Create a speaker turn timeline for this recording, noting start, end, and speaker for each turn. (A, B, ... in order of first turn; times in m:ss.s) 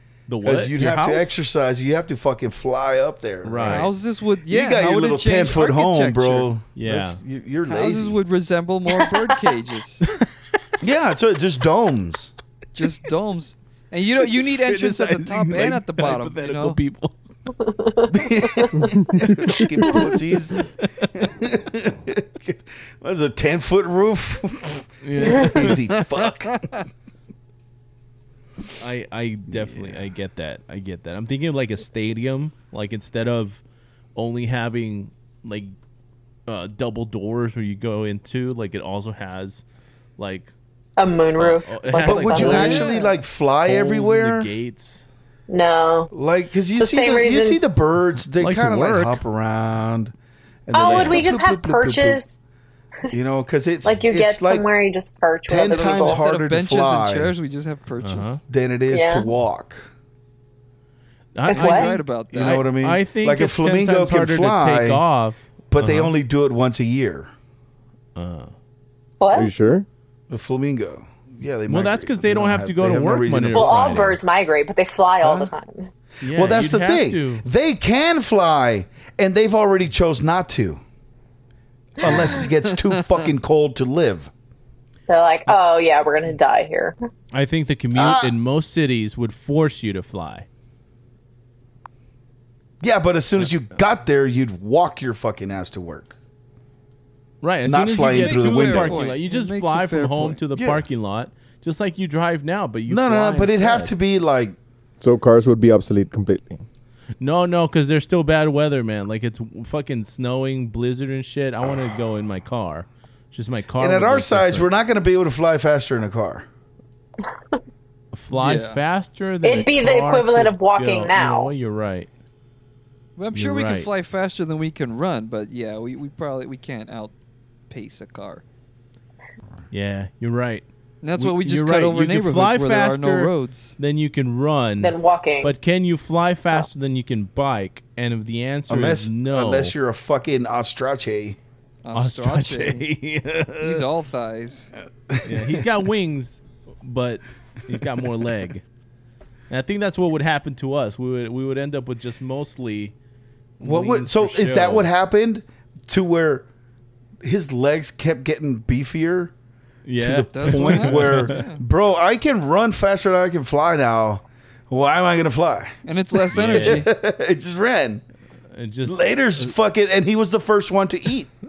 0:00.3-0:01.3 A
0:00.4-0:03.9 B
0:03.4-0:03.9 A
0:03.6-0:06.5 C
0:04.5-0:08.2 B
0:06.7-0:07.2 A
0:07.7-0:10.1 C
0:08.9-0:09.2 D
0:10.0-0:10.6 A
0:10.8-0:12.3 B
0:12.7-0:16.8 C
0:14.5-0:17.2 A
0:17.6-0:20.0 D
0:18.1-0:26.7 B
0:19.2-0:20.0 A
0:25.0-0:25.8 A
0:26.0-0:26.8 C
0:28.8-0:33.6 A
0:29.5-0:30.0 B
0:34.1-0:35.7 A
0:36.5-0:39.6 A
0:40.2-0:40.5 A
0:41.0-0:42.9 D
0:41.4-0:42.9 A
0:42.0-0:44.5 B
0:42.4-0:43.1 C
0:43.6-0:45.0 A
0:45.5-0:46.1 D
0:46.1-0:50.1 B
0:46.8-0:47.6 D
0:48.4-0:49.2 A
0:50.7-0:52.2 B
0:50.7-0:52.4 D
0:50.8-0:51.2 A
0:53.1-0:54.6 B
0:53.8-0:56.2 D
0:55.5-0:57.3 B
0:55.6-0:58.4 C
0:58.0-0:58.4 A
0:58.5-0:59.8 B
0:58.9-0:59.3 D
1:01.3-1:06.1 A
1:01.5-1:01.9 D
1:01.5-1:02.6 C
1:02.3-1:05.0 B
1:05.7-1:07.3 B
1:08.2-1:08.5 A
1:09.2-1:09.5 D
1:09.3-1:09.9 E
1:10.3-1:14.1 B
1:11.7-1:14.2 A
1:13.5-1:15.9 D
1:15.2-1:15.5 B
1:16.2-1:17.4 A
1:16.3-1:20.8 B
1:22.0-1:22.4 D
1:22.0-1:24.3 B
1:22.0-1:23.3 C
1:25.1-1:27.0 D
1:27.3-1:30.4 A
1:27.9-1:28.4 B
1:32.8-1:36.2 B
1:37.4-1:43.9 A
1:37.6-1:39.1 B
1:38.1-1:40.4 C
1:40.5-1:40.8 B
1:42.9-1:44.6 B
1:45.0-1:46.6 E
1:47.2-1:54.7 A
1:51.6-1:51.9 B
1:53.8-1:56.4 B
1:58.1-2:02.1 A
1:58.3-1:58.8 C
1:59.4-2:01.5 D
2:03.2-2:07.1 C
2:03.3-2:03.9 A
2:07.7-2:08.4 C
2:09.7-2:19.7 A
2:11.0-2:13.8 C
2:14.8-2:15.5 D
2:18.7-2:21.4 B
2:21.8-2:22.9 C
2:21.9-2:23.8 A
2:23.6-2:24.7 C
2:25.1-2:25.6 B
2:25.2-2:28.6 A
2:29.5-2:32.9 A
2:33.6-2:34.9 A
2:33.6-2:36.5 B
2:37.2-2:39.3 B
2:39.8-2:41.4 A
2:40.0-2:45.7 B
2:40.3-2:41.6 C
2:45.8-2:46.9 C
2:46.3-2:48.0 B
2:46.3-2:46.9 A
2:48.5-2:49.5 A
2:48.8-2:51.3 B